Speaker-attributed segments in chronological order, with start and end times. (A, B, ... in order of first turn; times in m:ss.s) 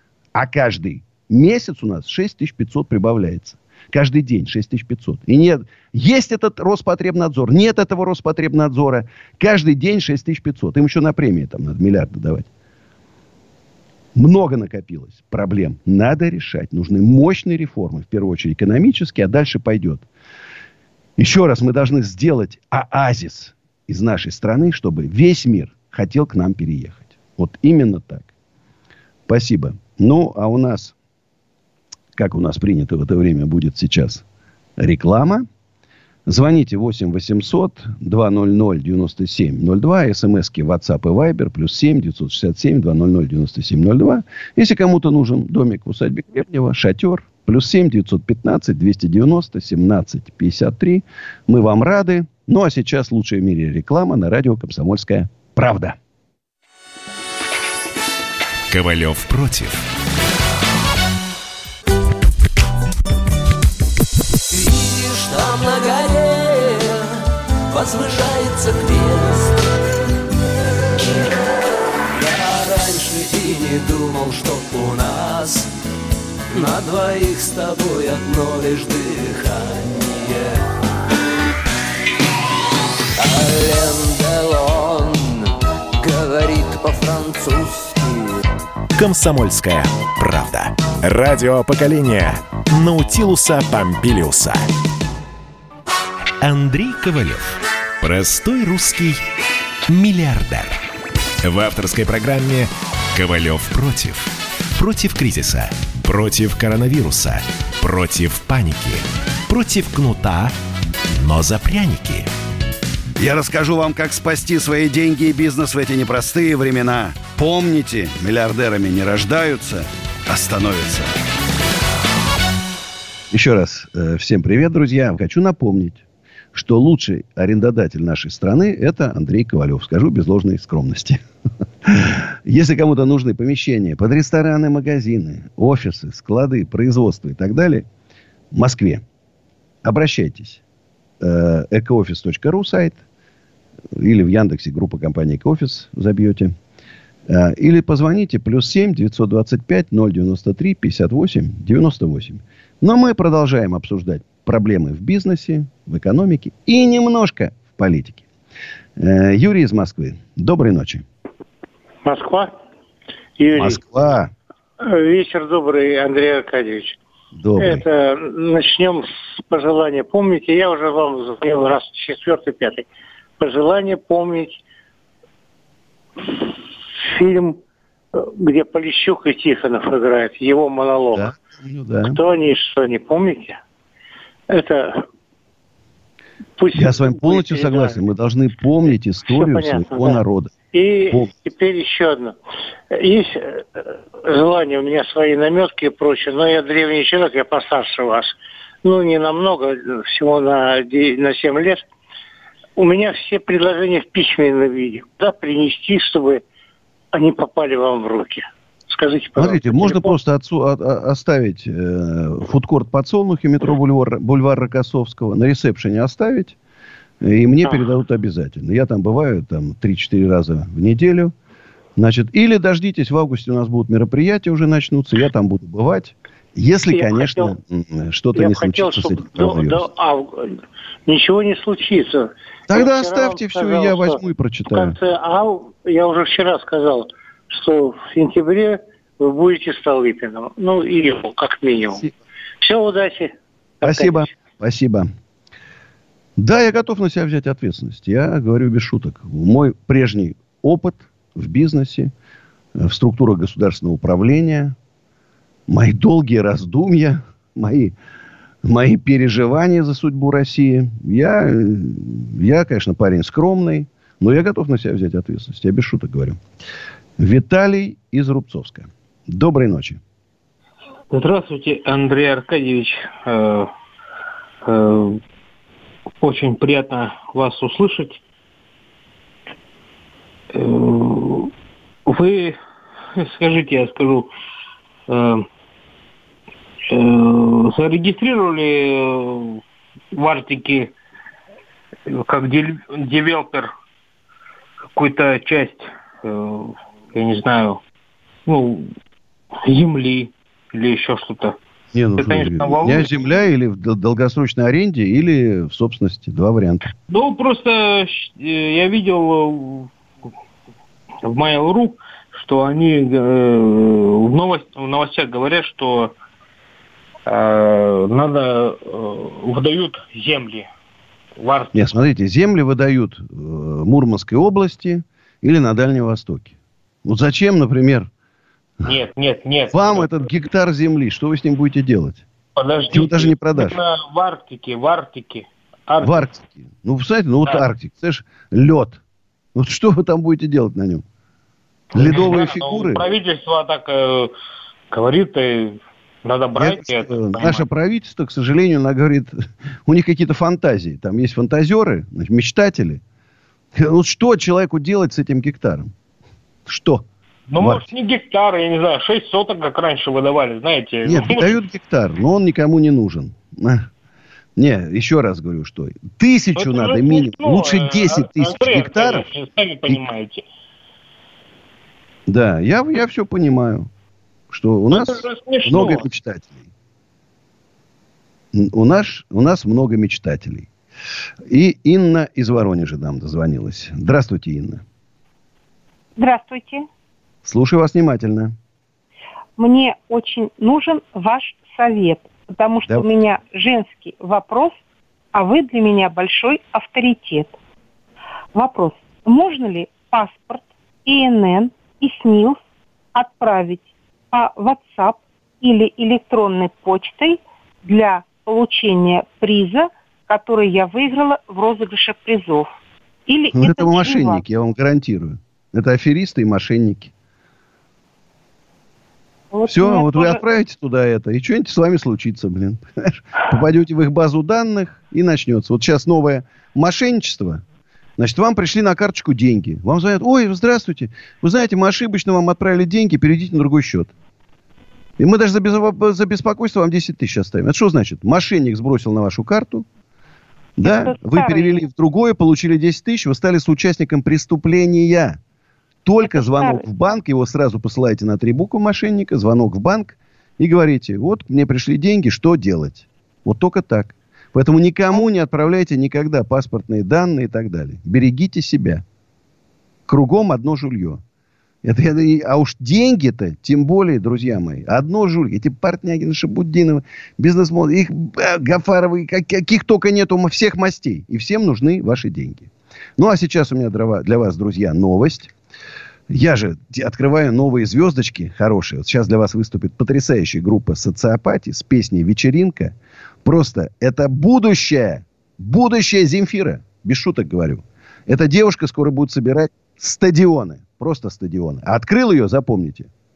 0:00.3-0:12.5 A
0:14.1-0:20.0 A
0:21.2-0:28.3 A
0:29.3-0:30.9 A
0:32.2-0:34.2 A
0:34.8-0:35.4 A
0:36.3-0:56.0 A
0:58.7-0:59.9 B
1:04.5-1:07.1 C
1:07.7-1:09.5 C
1:12.1-1:15.7 C
1:16.5-1:20.5 C
1:23.2-1:25.4 C
1:26.0-1:28.3 C
1:29.0-1:34.7 B
1:36.4-1:39.2 B
1:39.9-1:40.8 B
1:41.4-1:50.5 B
1:51.2-1:52.3 B
1:53.2-2:01.1 A
2:03.3-2:06.0 A
2:06.5-2:11.2 A
2:11.8-2:17.8 A
2:18.5-2:19.0 A
2:19.8-2:20.6 A
2:21.2-2:23.0 A
2:23.9-2:26.5 A
2:27.3-2:38.2 A
2:39.0-2:41.0 A
2:42.0-2:42.5 D
2:43.4-2:43.8 D
2:43.5-2:44.3 A
2:44.8-2:47.0 D
2:47.3-2:47.8 A
2:47.6-2:52.9 D
2:53.4-2:54.6 D
2:57.0-2:57.6 D
2:58.1-3:01.3 D
3:01.1-3:02.2 A
3:02.1-3:03.6 D
3:04.5-3:05.0 D
3:06.6-3:08.0 D
3:06.7-3:10.5 A
3:09.3-3:10.2 D
3:10.7-3:12.4 D
3:12.9-3:21.8 D
3:22.8-3:26.4 D
3:27.1-3:30.1 D
3:29.4-3:36.6 A
3:37.2-3:41.3 A
3:42.0-3:49.9 A
3:46.9-3:47.5 D
3:48.4-3:50.5 D
3:51.1-3:54.2 D
3:52.7-3:55.0 A
3:54.7-4:02.0 D
4:02.6-4:04.3 D
4:03.8-4:05.1 A
4:06.4-4:12.1 A
4:12.8-4:14.7 A
4:15.7-4:17.9 A
4:18.6-4:26.4 A
4:27.2-4:30.0 A
4:31.1-4:33.7 E
4:34.6-4:35.2 E
4:36.2-4:38.2 E
4:40.5-4:41.5 E
4:42.0-4:42.6 E
4:43.2-4:44.3 E
4:45.1-4:45.4 E
4:46.9-4:49.6 E
4:50.1-4:50.9 E
4:52.1-4:53.7 E
4:54.9-4:57.8 E
4:58.4-4:58.9 E
4:59.6-5:01.6 E
5:01.9-5:06.9 A
5:02.2-5:03.1 E
5:07.1-5:09.9 E
5:11.2-5:16.1 E
5:17.2-5:20.7 E
5:21.4-5:21.9 E
5:21.7-5:28.1 A
5:28.8-5:30.1 E
5:29.7-5:32.2 A
5:32.6-5:36.2 E
5:32.9-5:33.8 A
5:36.0-5:39.0 A
5:39.5-5:41.0 A
5:41.9-5:43.0 A
5:41.9-5:44.3 E
5:44.9-5:47.6 E
5:46.5-5:53.0 A
5:53.7-5:55.9 A
5:56.6-5:57.0 A
5:57.5-6:01.6 E
5:57.6-5:57.9 A
6:01.0-6:03.9 A
6:04.6-6:09.3 A
6:06.5-6:10.4 E
6:12.3-6:13.9 A
6:14.5-6:16.6 A
6:14.9-6:16.1 E
6:18.5-6:20.7 A
6:21.5-6:24.8 A
6:26.2-6:26.8 F
6:27.4-6:28.5 A
6:29.6-6:34.8 F
6:35.3-6:37.6 F
6:38.5-6:42.6 F
6:43.1-6:52.7 F
6:53.3-6:54.4 F
6:53.5-6:57.1 A
6:59.5-7:00.4 F
6:59.7-7:07.6 A
7:08.2-7:14.1 A
7:15.2-7:19.8 A
7:20.8-7:25.4 A
7:20.8-7:21.8 F
7:26.0-7:39.0 A
7:26.2-7:26.8 F
7:40.1-7:41.2 A
7:41.8-7:55.5 A
7:56.3-8:13.1 A